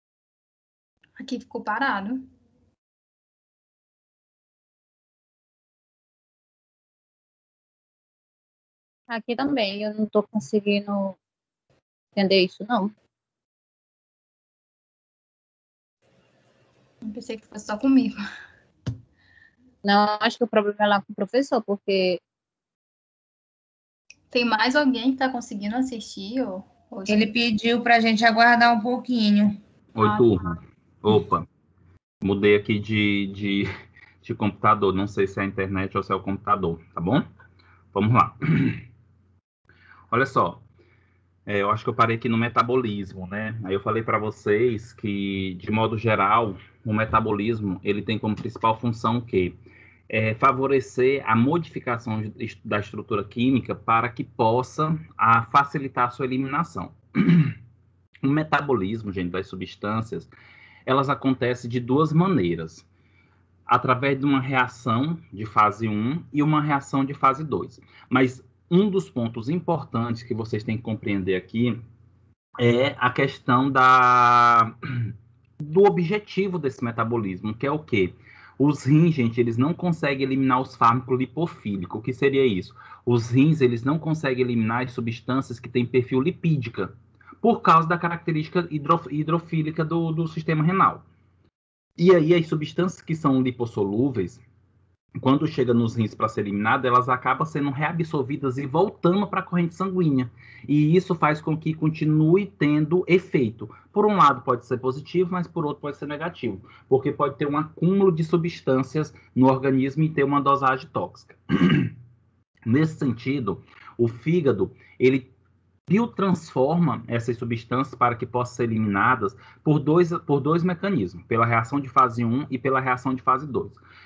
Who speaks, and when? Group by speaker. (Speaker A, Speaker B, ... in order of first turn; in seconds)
Speaker A: 1.1-2.3, 17.0-18.2, 24.3-27.3
Speaker B: 9.1-11.2, 12.2-12.9, 19.8-22.2
Speaker C: 27.1-29.6
Speaker D: 29.9-31.5, 32.2-33.7, 34.2-37.2, 37.9-38.8, 40.1-40.6, 41.5-49.6, 50.1-57.5, 58.2-60.3, 60.9-62.9, 63.7-71.8, 72.6-91.0, 92.0-94.4, 95.2-111.9, 112.7-115.3, 115.9-123.8